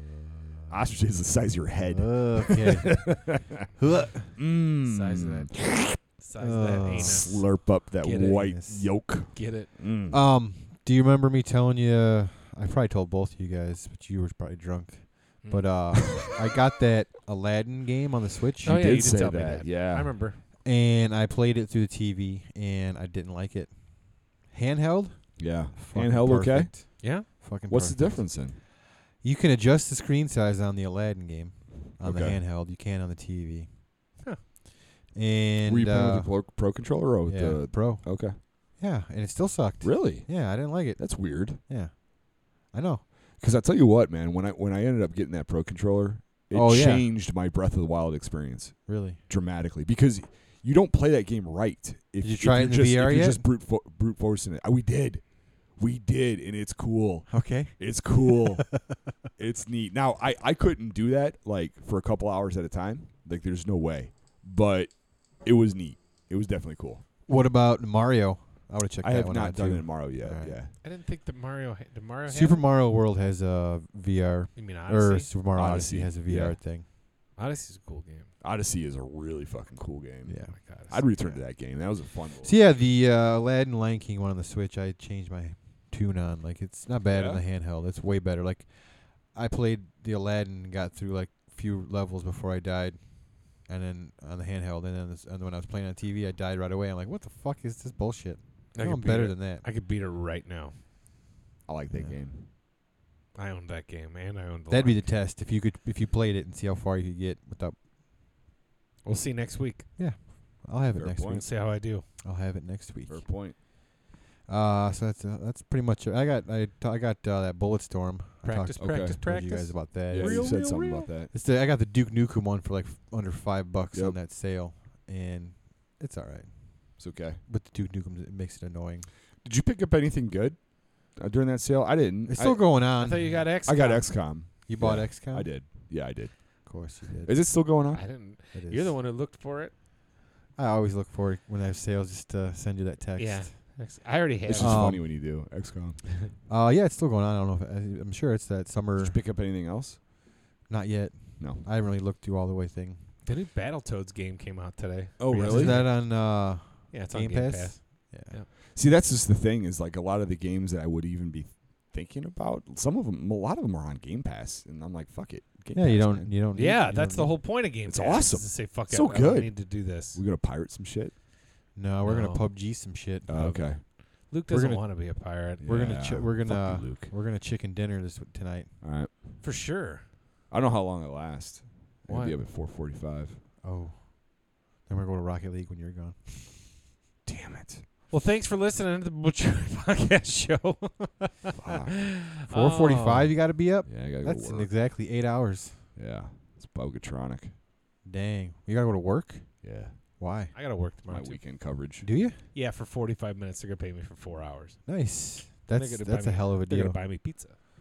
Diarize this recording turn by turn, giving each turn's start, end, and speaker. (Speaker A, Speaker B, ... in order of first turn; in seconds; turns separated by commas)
Speaker A: 0.7-3.7, Speaker B: 1.9-4.4, Speaker A: 4.3-6.0, Speaker C: 4.8-7.5, Speaker B: 6.4-7.5, Speaker A: 6.9-10.2, Speaker C: 8.0-8.6, Speaker B: 8.4-8.9, Speaker C: 9.1-9.7, Speaker B: 10.1-18.9, Speaker C: 15.4-15.7, Speaker A: 15.9-16.4, Speaker A: 18.6-20.1, Speaker C: 18.6-20.4, Speaker B: 20.6-28.6, Speaker A: 25.4-28.6, Speaker C: 27.0-27.3, Speaker B: 29.2-33.7, Speaker A: 31.9-32.4, Speaker B: 35.1-36.4, Speaker A: 35.6-38.4, Speaker B: 37.3-42.0, Speaker A: 39.8-41.6, Speaker B: 42.6-43.0, Speaker A: 43.4-55.2, Speaker B: 46.5-47.1, Speaker B: 48.9-49.2, Speaker B: 52.2-53.4, Speaker A: 55.8-58.7, Speaker B: 57.3-59.0, Speaker A: 59.4-67.0, Speaker B: 67.3-70.6, Speaker A: 69.0-70.7, Speaker C: 70.8-72.6, Speaker B: 72.3-76.8, Speaker C: 74.6-75.3, Speaker A: 75.5-76.6, Speaker C: 77.4-78.3, Speaker A: 78.4-82.8, Speaker B: 80.3-80.5, Speaker C: 80.5-81.4, Speaker B: 82.4-99.7, Speaker A: 87.1-87.4, Speaker C: 98.7-100.8, Speaker A: 101.7-102.5, Speaker C: 103.3-105.0, Speaker B: 104.7-107.8, Speaker C: 109.0-109.9, Speaker B: 110.0-111.5, Speaker A: 111.0-111.5, Speaker C: 111.3-112.0, Speaker B: 112.2-113.3, Speaker A: 113.1-113.6, Speaker B: 114.5-120.8, Speaker C: 118.4-121.1, Speaker A: 118.8-119.2, Speaker A: 120.1-121.3, Speaker B: 121.3-126.5, Speaker A: 127.0-127.4, Speaker B: 127.5-129.1, Speaker A: 129.4-138.1, Speaker B: 132.3-133.4, Speaker C: 133.0-134.1, Speaker B: 134.7-135.6, Speaker B: 136.7-137.5, Speaker C: 137.9-139.7, Speaker B: 138.6-139.0, Speaker B: 140.6-143.5, Speaker C: 143.2-144.8, Speaker A: 144.5-146.1, Speaker B: 144.6-145.1, Speaker B: 146.5-149.2, Speaker A: 149.0-150.0, Speaker B: 150.7-153.0, Speaker A: 151.4-151.7, Speaker C: 153.2-156.2, Speaker A: 155.2-155.9, Speaker B: 155.4-158.3, Speaker C: 156.9-158.5, Speaker A: 158.7-166.3, Speaker B: 165.7-167.3, Speaker C: 166.5-170.2, Speaker A: 167.8-171.1, Speaker B: 171.8-173.9, Speaker C: 172.0-172.5, Speaker A: 173.3-173.8, Speaker C: 173.3-173.7, Speaker C: 174.3-175.7, Speaker B: 174.5-174.9, Speaker A: 175.6-177.1, Speaker B: 175.6-178.7, Speaker A: 178.8-179.1, Speaker C: 179.4-180.0, Speaker A: 180.5-183.4, Speaker C: 182.1-182.4, Speaker B: 183.6-184.1, Speaker B: 184.8-186.5, Speaker A: 187.3-187.8, Speaker C: 188.1-193.4, Speaker A: 191.6-192.0, Speaker B: 192.5-195.8, Speaker A: 193.9-194.7, Speaker A: 196.0-197.5, Speaker B: 198.1-199.5, Speaker A: 199.6-199.9, Speaker B: 200.2-200.5, Speaker C: 200.5-201.4, Speaker A: 201.1-202.1, Speaker B: 202.0-202.4, Speaker C: 202.5-204.8, Speaker B: 204.9-207.0, Speaker C: 205.7-207.6